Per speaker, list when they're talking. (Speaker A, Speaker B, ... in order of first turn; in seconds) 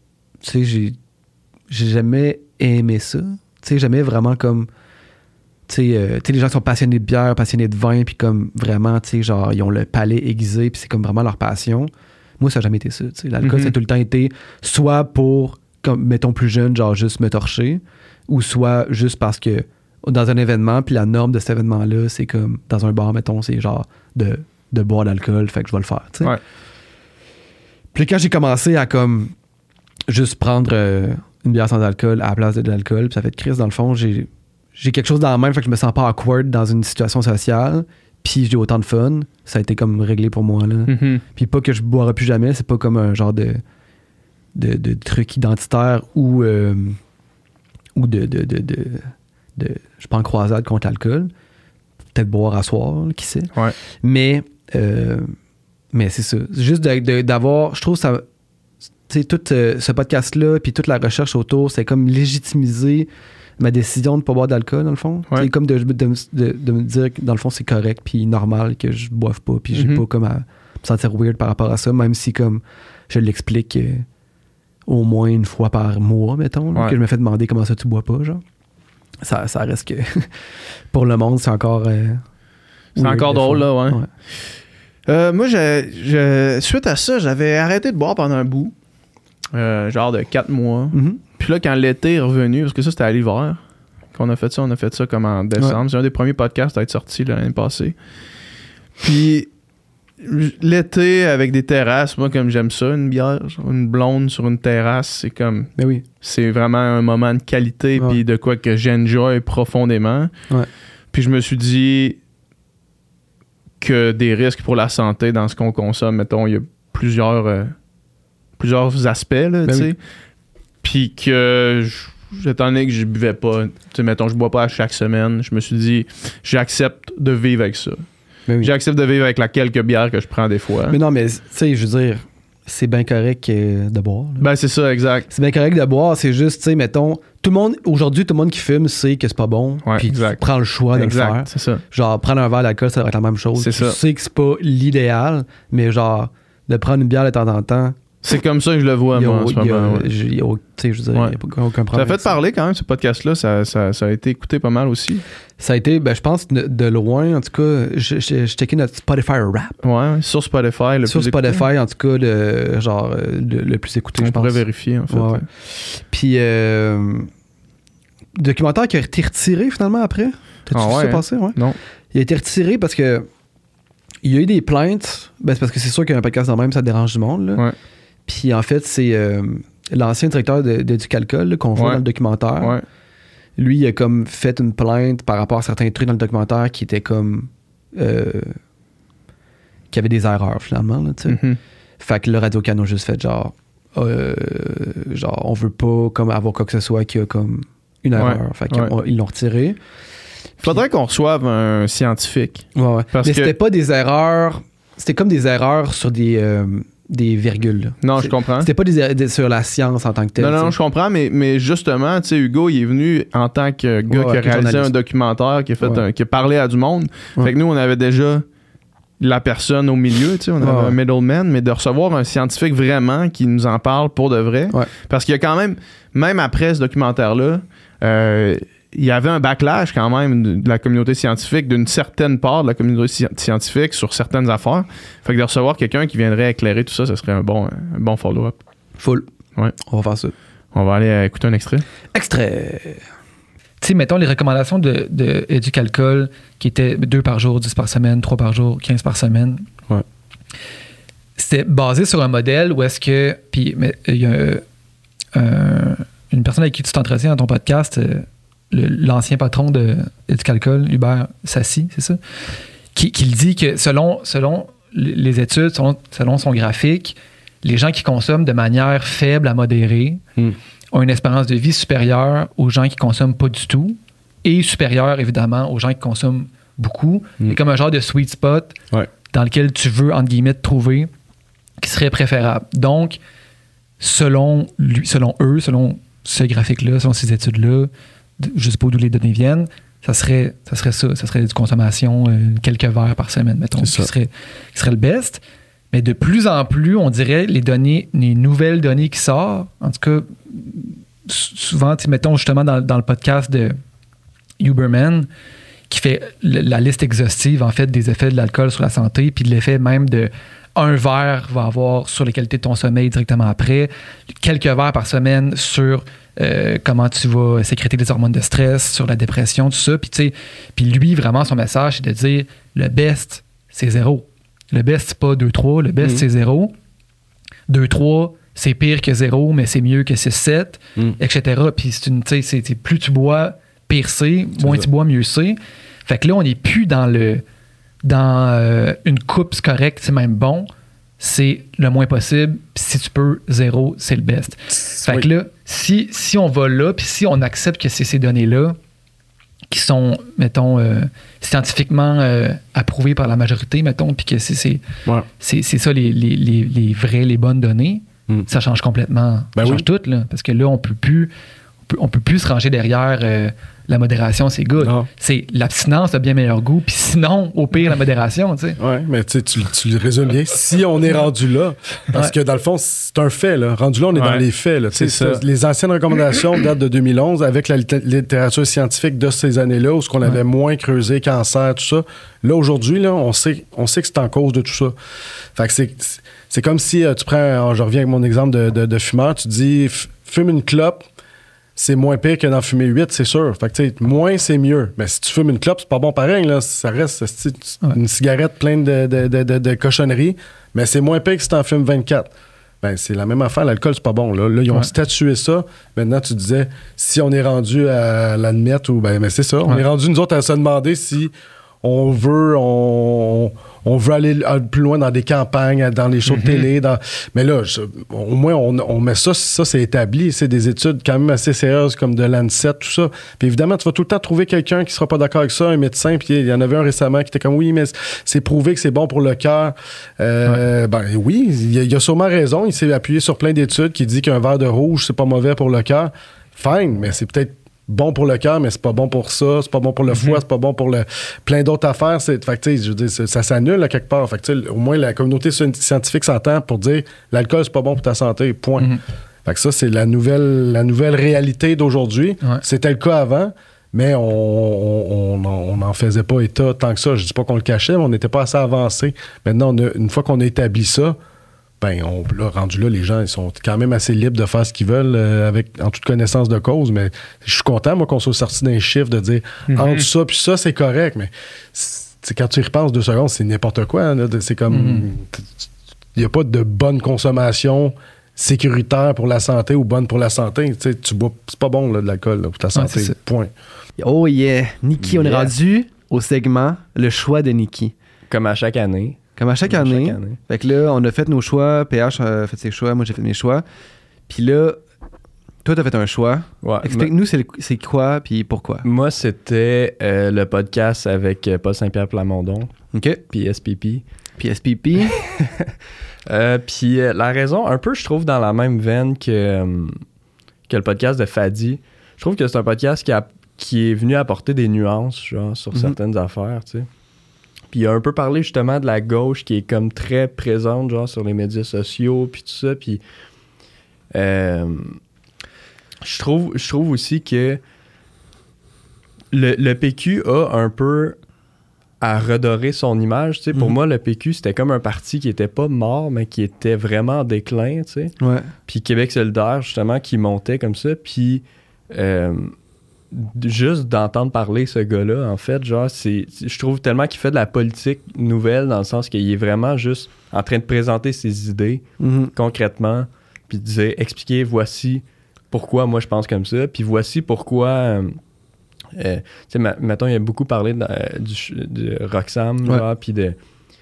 Speaker A: 0.4-1.0, 1.7-4.7, 5.7-26.3, 27.9-29.3, 30.1-43.6, 44.5-47.0, 47.9-51.3, 52.1-55.3, 55.9-58.2, 59.1-74.0, 74.8-78.4, 79.2-80.3, 80.9-82.2, 83.0-84.1, 90.9-91.2, 105.8-106.0, 119.6-119.9, 128.5-128.7, 130.9-134.4, 135.3-148.0, 149.1-152.3, 155.6-159.8, 161.1-167.3, 168.3-171.6, 172.1-173.3, 174.2-177.6, 178.2-182.8, 183.6-188.6, 189.9-191.4, 192.0-199.8, 202.7-210.7, 214.1-214.9, 220.6-220.9, 239.9-240.3, 242.1-243.0, 484.0-487.9, 489.4-493.6, 494.3-494.8, 495.6-498.8, 502.9-503.2, 504.4-505.6, 538.2-538.5, 552.0-552.3
Speaker B: 13.4-13.8, 40.9-41.2, 69.7-70.0, 83.0-88.7, 89.5-98.0, 99.0-99.5, 100.2-110.3, 111.1-112.2, 113.8-117.8, 118.6-120.0, 120.8-131.0, 134.4-135.3, 139.8-140.4, 140.9-141.8, 143.6-144.0, 148.2-150.1, 151.9-155.2, 159.8-161.6, 164.2-165.4, 170.7-171.8, 181.8-182.0, 182.6-182.8, 191.3-191.6, 198.1-198.9, 200.6-203.5, 208.0-208.7, 210.4-218.4, 219.2-238.6, 240.7-241.8, 374.1-375.4, 416.2-416.7, 469.7-470.1
Speaker C: 243.8-249.7, 251.4-254.6, 255.3-262.2, 262.9-270.2, 270.9-278.8, 279.3-281.1, 281.8-283.2, 284.0-295.4, 295.9-303.8, 304.6-305.3, 305.9-326.7, 327.7-337.4, 338.0-348.8, 349.7-354.8, 355.4-361.3, 361.9-368.8, 448.8-449.0, 474.7-475.1, 482.7-483.2
Speaker D: 326.0-326.2, 334.6-334.9, 345.0-345.3, 359.5-359.9, 364.8-365.1, 368.8-384.9, 385.5-391.0, 391.8-402.3, 402.8-411.3, 411.8-461.1, 461.8-475.4, 476.1-483.5
Speaker E: 485.0-485.5, 488.3-490.4, 496.6-497.1, 498.8-502.7, 503.3-504.1, 506.3-510.0, 510.7-516.9, 517.7-523.0, 524.1-525.0, 526.0-527.6, 529.3-531.2, 532.0-538.1, 538.7-542.6, 543.1-558.2, 558.9-563.4